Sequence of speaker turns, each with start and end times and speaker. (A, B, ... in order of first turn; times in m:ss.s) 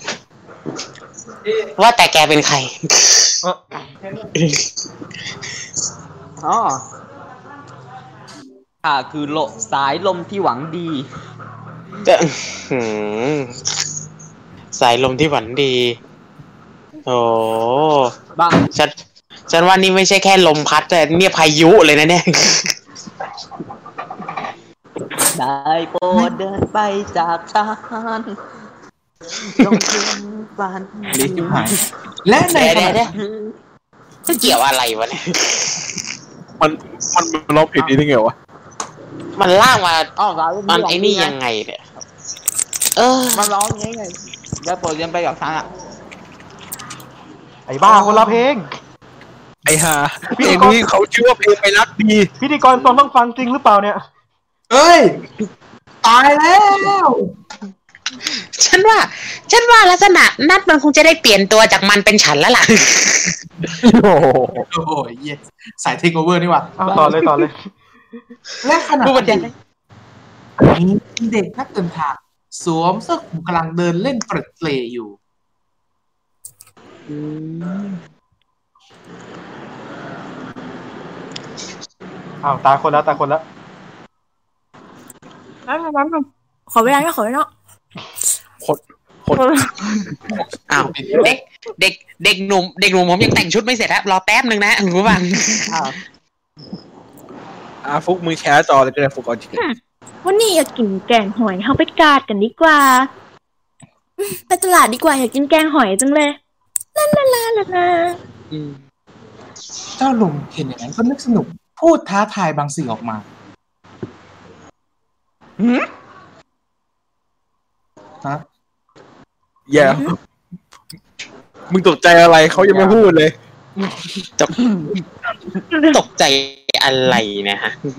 0:01.8-0:03.3 A
0:04.4-0:04.7 A
0:06.4-0:06.8 B
0:08.8-0:11.1 B
0:12.0-0:13.6 A
0:14.7-0:16.0 A
0:17.1-0:18.1 A
0:18.4-0:18.7 B
0:18.7-0:18.9 A
0:19.5-0:22.7 A
0:25.3-0:28.4 B
0:29.5-0:31.8 B
0:31.1-0:33.1 C
0:32.5-0:33.1 A
0:33.1-0:33.6 B
0:34.3-0:35.8 A
0:34.3-0:34.6 B
0:36.6-0:38.3 D
0:39.4-0:40.1 A
0:40.2-0:41.4 B
0:40.7-0:41.8 A
0:43.0-0:43.5 A
0:43.3-0:45.7 B
0:47.7-0:48.7 E
0:49.7-0:52.3 D
0:50.4-0:50.8 E
0:52.4-0:54.0 E
0:54.7-0:55.2 C
0:56.0-0:57.3 C
0:58.6-1:03.4 A
1:03.8-1:04.6 D
1:04.7-1:06.8 C
1:06.8-1:07.7 E
1:06.9-1:07.3 B
1:08.6-1:09.5 C
1:09.0-1:09.5 A
1:10.6-1:15.2 C
1:17.1-1:18.0 A
1:22.4-1:23.4 E
1:25.7-1:27.5 F
1:28.6-1:29.5 D
1:29.3-1:30.0 F
1:30.4-1:31.3 C
1:30.7-1:35.9 A
1:35.7-1:36.0 B
1:37.8-1:39.6 D
1:39.6-1:43.1 F
1:44.2-1:46.4 F
1:47.0-1:48.2 F
1:48.5-1:48.8 A
1:50.0-1:53.2 C
1:55.6-1:55.9 B
1:59.7-2:00.2 D
1:59.8-2:00.1 F
2:01.7-2:03.3 D
2:02.5-2:03.0 B
2:04.5-2:05.0 B
2:05.7-2:06.0 F
2:05.9-2:07.8 A